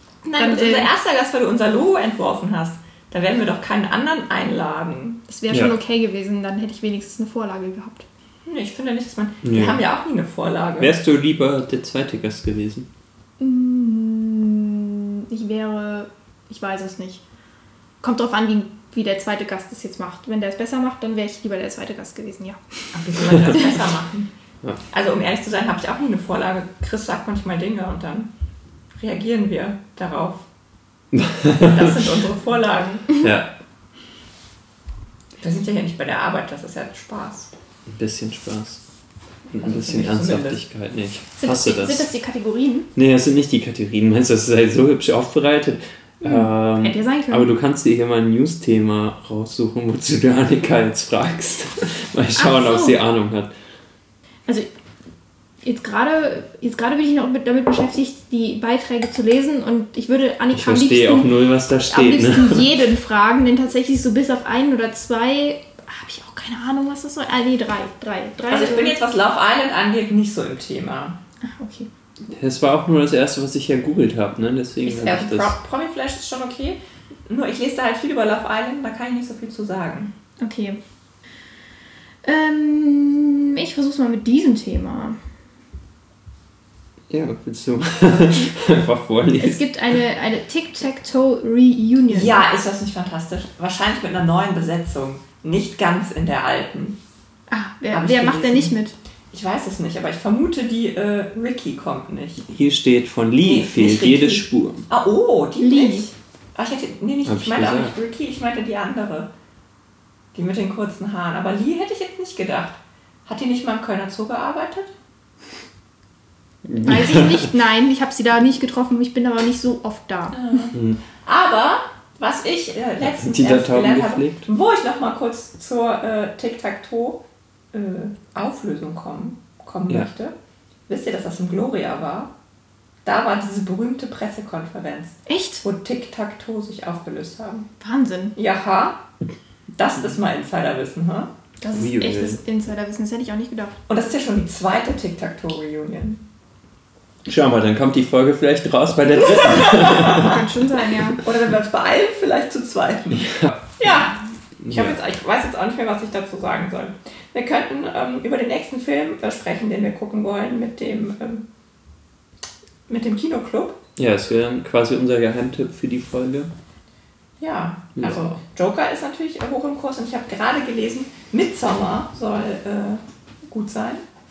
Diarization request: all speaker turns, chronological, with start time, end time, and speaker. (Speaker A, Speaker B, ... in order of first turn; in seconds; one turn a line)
Speaker A: 0.2-0.9
Speaker B: 0.3-5.2
Speaker A: 5.3-8.1
Speaker B: 8.5-10.9
Speaker C: 9.4-9.8
Speaker C: 10.8-12.9
Speaker A: 13.4-17.2
Speaker A: 18.0-22.6
Speaker B: 22.9-24.3
Speaker B: 24.9-28.3
Speaker B: 29.0-30.4
Speaker C: 31.1-31.9
Speaker B: 31.6-33.1
Speaker C: 33.2-33.5
Speaker B: 35.4-37.5
Speaker C: 37.9-38.8
Speaker C: 39.5-42.1
Speaker B: 39.6-40.6
Speaker A: 41.4-42.9
Speaker C: 43.0-53.5
Speaker A: 46.2-47.5
Speaker A: 52.4-53.0
Speaker A: 55.6-61.3
Speaker C: 60.5-62.7
Speaker A: 61.9-69.0
Speaker B: 68.5-71.2
Speaker A: 71.4-71.9
Speaker C: 72.3-75.5
Speaker B: 74.8-80.1
Speaker A: 80.4-80.8
Speaker A: 82.2-85.2
Speaker C: 87.1-89.7
Speaker A: 89.4-92.4
Speaker B: 92.1-97.0
Speaker A: 97.5-99.0
Speaker B: 97.9-98.8
Speaker B: 99.3-102.5
Speaker C: 102.5-104.9
Speaker B: 103.4-109.3
Speaker A: 105.6-106.1
Speaker C: 107.2-108.0
Speaker B: 110.3-114.9
Speaker C: 116.7-117.5
Speaker A: 116.8-120.4
Speaker B: 120.3-127.2
Speaker C: 120.7-121.0
Speaker C: 123.0-124.5
Speaker B: 127.7-130.3
Speaker B: 130.9-132.3
Speaker B: 133.1-137.7
Speaker A: 135.3-135.6
Speaker A: 137.8-138.3
Speaker B: 138.4-139.0
Speaker B: 139.8-141.3
Speaker A: 141.6-143.8
Speaker C: 141.7-142.4
Speaker B: 143.9-146.2
Speaker C: 147.3-150.4
Speaker B: 149.5-150.3
Speaker A: 150.1-151.2
Speaker B: 151.2-154.2
Speaker C: 153.2-153.6
Speaker C: 154.6-154.9
Speaker B: 154.7-161.5
Speaker B: 162.9-163.8
Speaker C: 164.0-166.5
Speaker B: 167.4-174.0
Speaker C: 168.0-168.3